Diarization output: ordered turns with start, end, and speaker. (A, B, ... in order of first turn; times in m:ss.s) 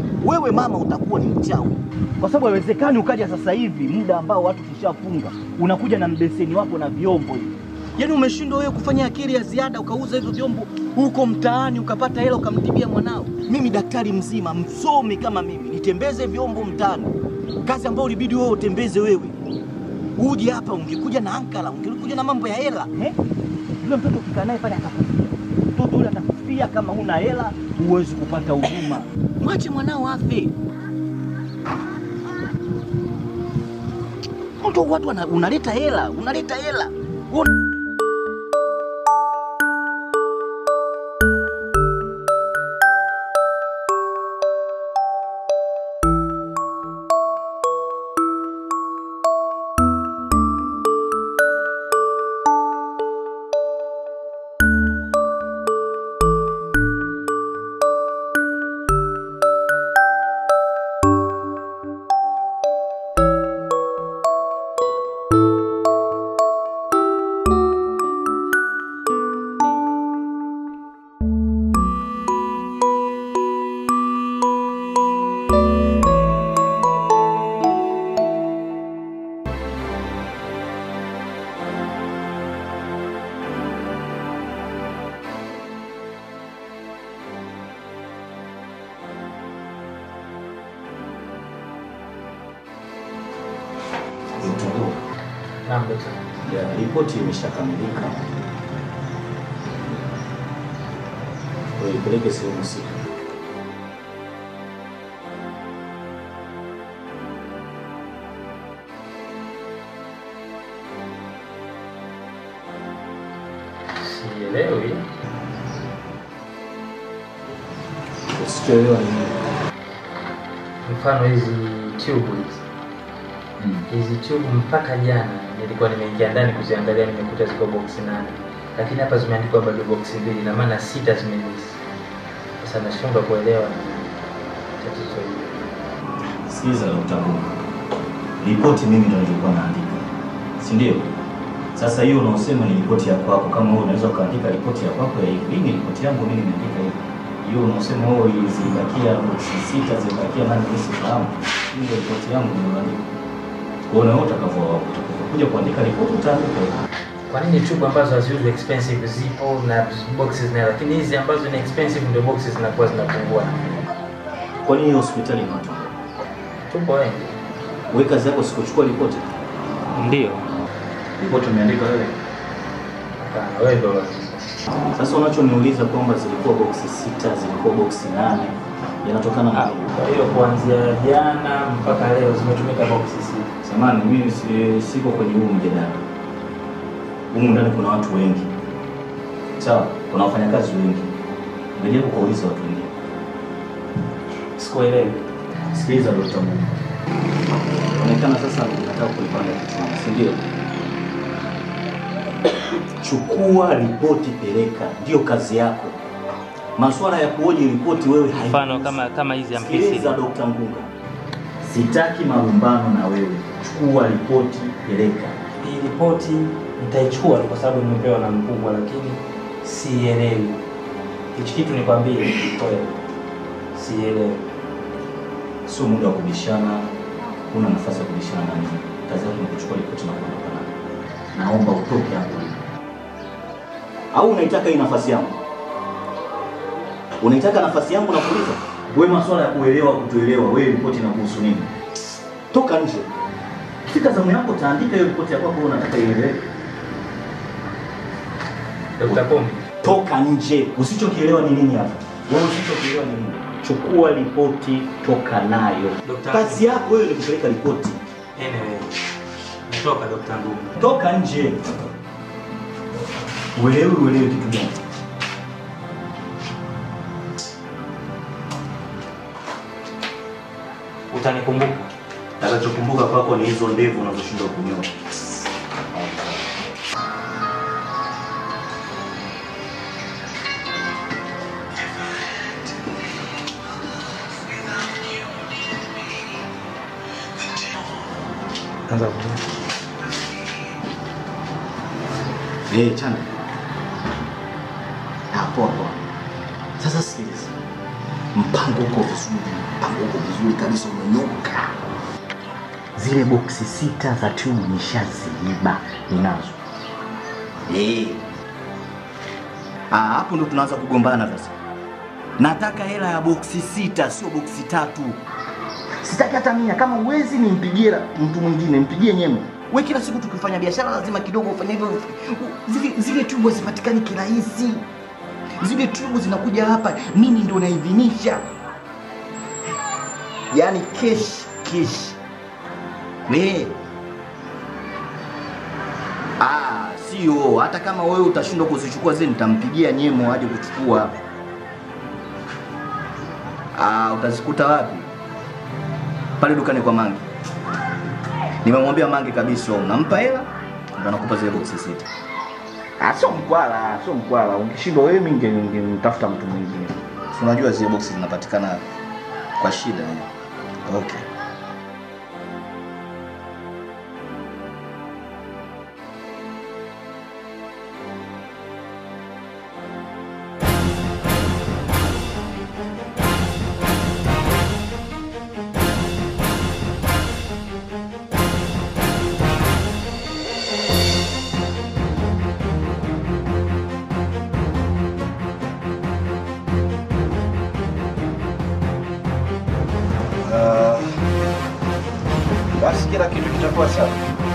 0:00.2-0:19.4 A
0:20.2-0:23.2 A
0:23.8-0:30.5 A
0:34.6-0:37.5 A
1:34.4-1:35.0 A
1:35.7-1:36.2 B
1:36.4-1:38.2 A
1:41.8-1:43.0 A
1:54.0-1:55.1 B
1:58.3-1:59.3 A
2:00.8-2:02.6 B
2:03.6-2:03.9 A
2:03.9-2:11.8 B
2:12.6-2:14.1 B
2:14.8-2:15.5 B
2:16.5-2:17.5 A
2:18.4-2:20.1 A
2:20.6-2:21.1 A
2:21.8-2:33.0 A
2:33.9-2:36.7 A
2:37.3-2:43.6 B
2:44.6-2:45.9 A
2:46.7-2:47.4 B
2:47.9-2:49.3 A
2:49.9-2:50.5 B
2:51.2-2:52.2 A
2:53.2-2:54.4 B
2:55.0-3:00.0 A
2:59.5-3:03.5 B
3:03.6-3:06.0 A
3:07.3-3:08.5 A
3:09.6-3:11.1 A
3:11.8-3:12.9 A
3:14.6-3:15.2 B
3:15.7-3:16.7 A
3:17.9-3:20.5 A
3:22.5-3:26.0 A
3:26.8-3:29.0 A
3:28.4-3:30.2 B
3:29.5-3:30.9 A
3:31.6-3:35.4 A
3:35.6-3:40.6 B
3:41.4-3:42.9 B
3:43.8-3:44.4 B
3:45.7-3:46.9 A
3:47.5-3:50.7 A
3:51.3-3:52.6 A
3:54.1-3:55.4 A
3:57.2-4:01.7 A
4:02.5-4:03.1 A
4:03.9-4:06.4 A
4:09.0-4:09.6 B
4:09.8-4:18.0 A
4:16.0-4:16.7 B
4:18.4-4:18.9 B
4:19.7-4:20.8 B
4:20.8-4:21.7 A
4:23.6-4:24.8 A
4:31.1-4:31.9 B
4:32.4-4:34.9 A
4:35.9-4:36.4 A
4:48.9-4:49.4 B
4:52.7-4:53.3 A
4:55.3-4:56.0 A
4:56.8-4:57.6 A
4:58.4-5:01.8 A
5:03.0-5:06.6 A
5:07.7-5:08.2 A
5:09.9-5:11.5 A
5:12.4-5:15.2 A
5:16.0-5:24.8 A
5:25.6-5:28.4 A
5:30.5-5:32.2 A
5:33.3-5:33.8 A
5:36.4-5:41.1 A
5:43.8-5:45.1 A
5:46.4-5:47.2 A
5:48.6-5:52.1 A
5:53.0-5:58.8 A
5:59.6-6:00.3 A
6:00.8-6:01.2 A
6:30.4-6:31.1 A
6:32.8-6:34.2 A